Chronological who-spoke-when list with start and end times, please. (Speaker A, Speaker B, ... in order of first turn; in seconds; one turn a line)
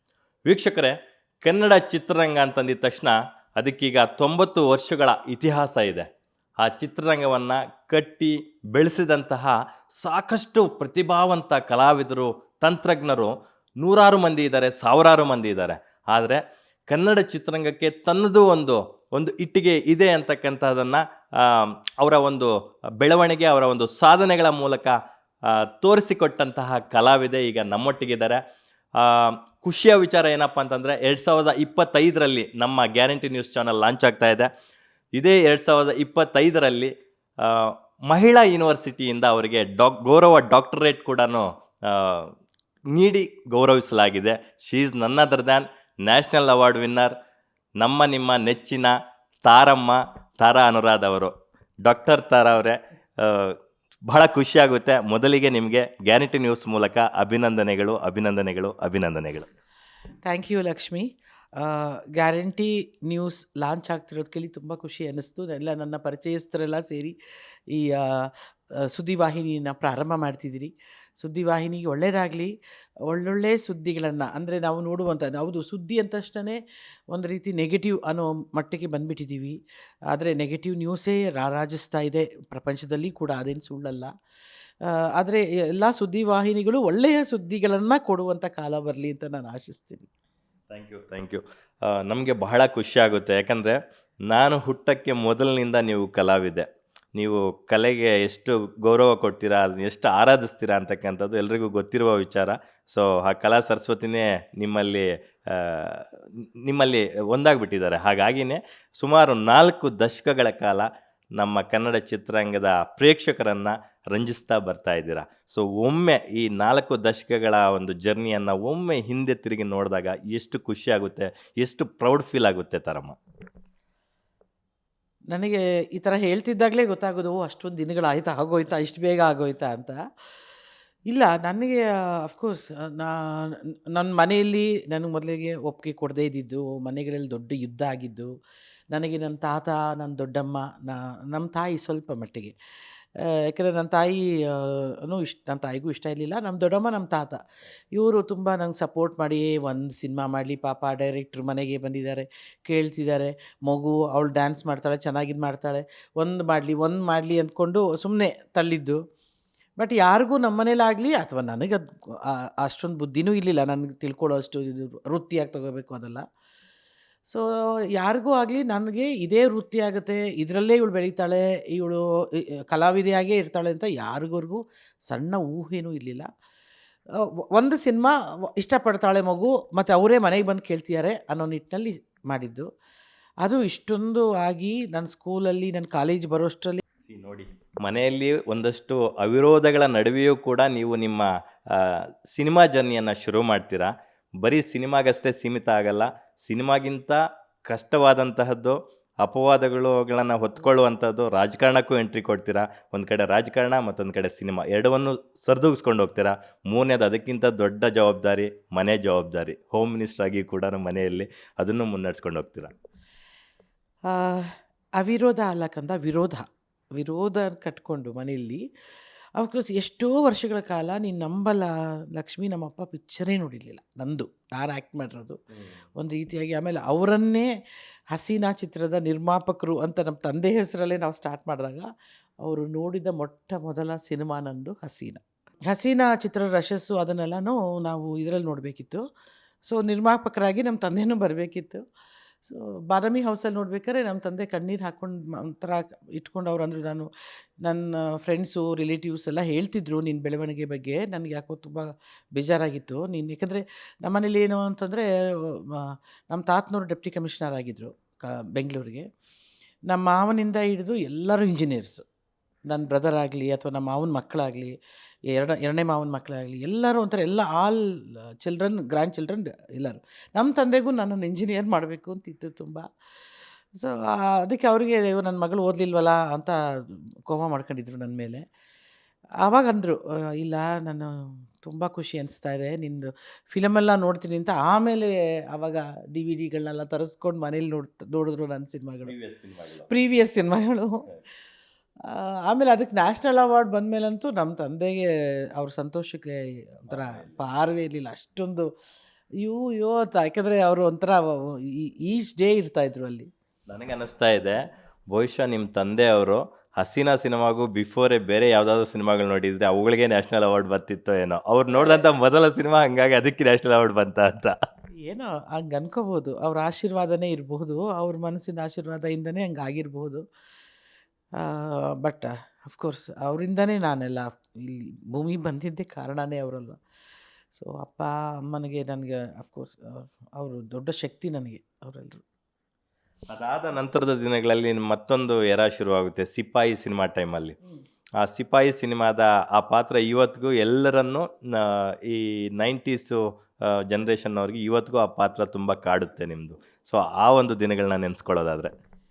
Speaker A: 0.5-6.1
Speaker A: 6.6-24.9
Speaker A: 25.5-28.4
Speaker A: 29.0-34.5
Speaker A: 35.2-42.3
Speaker A: 42.9-47.1
Speaker A: 47.8-48.9
Speaker A: 49.5-51.3
Speaker A: 51.9-53.6
Speaker A: 54.1-59.5
Speaker B: 60.3-67.2
Speaker B: 67.7-72.5
Speaker B: 73.1-76.6
Speaker B: 77.1-79.6
Speaker B: 80.1-84.1
Speaker B: 84.8-90.1
Speaker A: 90.7-106.1
Speaker A: 106.7-123.2
Speaker B: 125.3-130.0
Speaker B: 131.1-138.3
Speaker B: 138.9-142.5
Speaker B: 143.2-147.4
Speaker B: 148.0-159.0
Speaker B: 159.8-166.2
Speaker B: 167.3-176.3
Speaker B: 177.5-182.7
Speaker B: 183.4-186.8
Speaker A: 187.1-193.9
Speaker A: 194.4-212.7
Speaker B: 214.1-216.4
Speaker B: 217.0-218.6
Speaker B: 219.4-225.4
Speaker B: 226.0-227.5
Speaker B: 228.1-231.9
Speaker B: 232.4-239.0
Speaker B: 239.7-241.8
Speaker B: 242.4-247.1
Speaker B: 247.6-259.1
Speaker B: 259.9-262.1
Speaker B: 262.7-264.8
Speaker B: 265.3-272.9
Speaker B: 273.7-278.4
Speaker B: 279.4-289.1
Speaker A: 289.0-289.9
Speaker B: 289.9-291.1
Speaker B: 292.1-298.7
Speaker A: 296.9-297.4
Speaker B: 299.4-303.3
Speaker A: 303.7-314.6
Speaker B: 311.8-312.0
Speaker B: 315.0-320.2
Speaker B: 321.4-326.8
Speaker B: 327.6-332.2
Speaker A: 333.3-337.6
Speaker A: 338.2-348.7